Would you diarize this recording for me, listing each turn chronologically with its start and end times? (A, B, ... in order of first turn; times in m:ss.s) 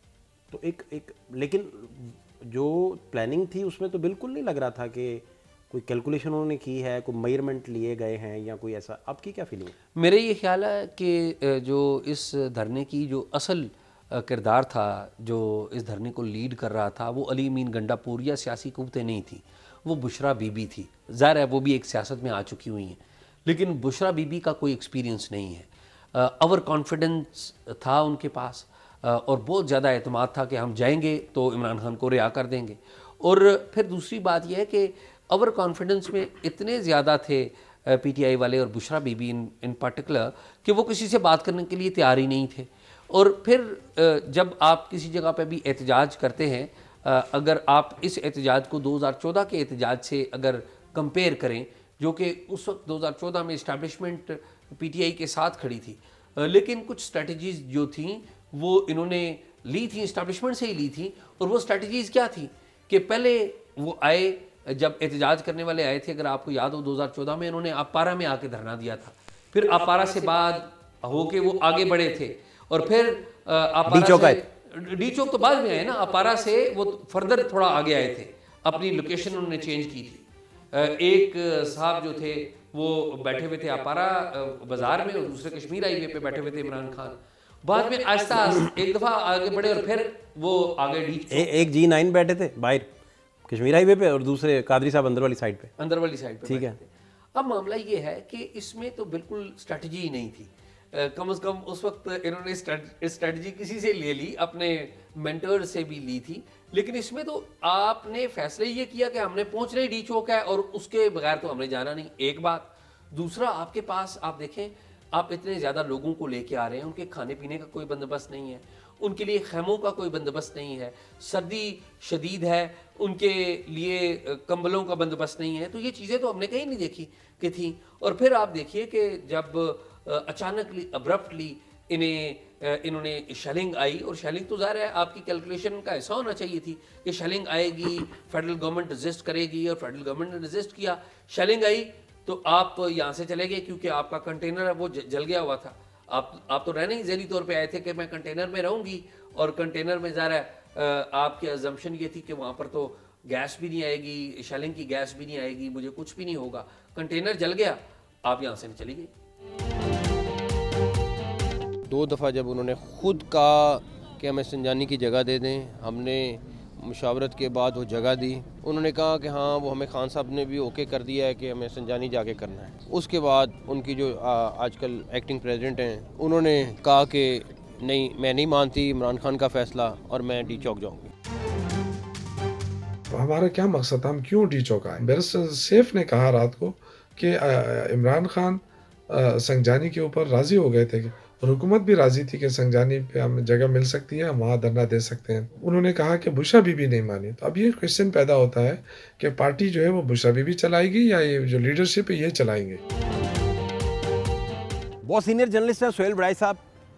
0:00.5-0:09.8 A
0:10.0-1:31.5 B
1:13.9-1:14.4 A
1:31.3-1:32.9 A
1:33.5-1:35.7 A
1:35.8-2:39.1 B
1:36.5-1:36.8 A
2:41.9-3:01.1 C
3:03.1-3:22.8 D
3:25.0-3:26.6 A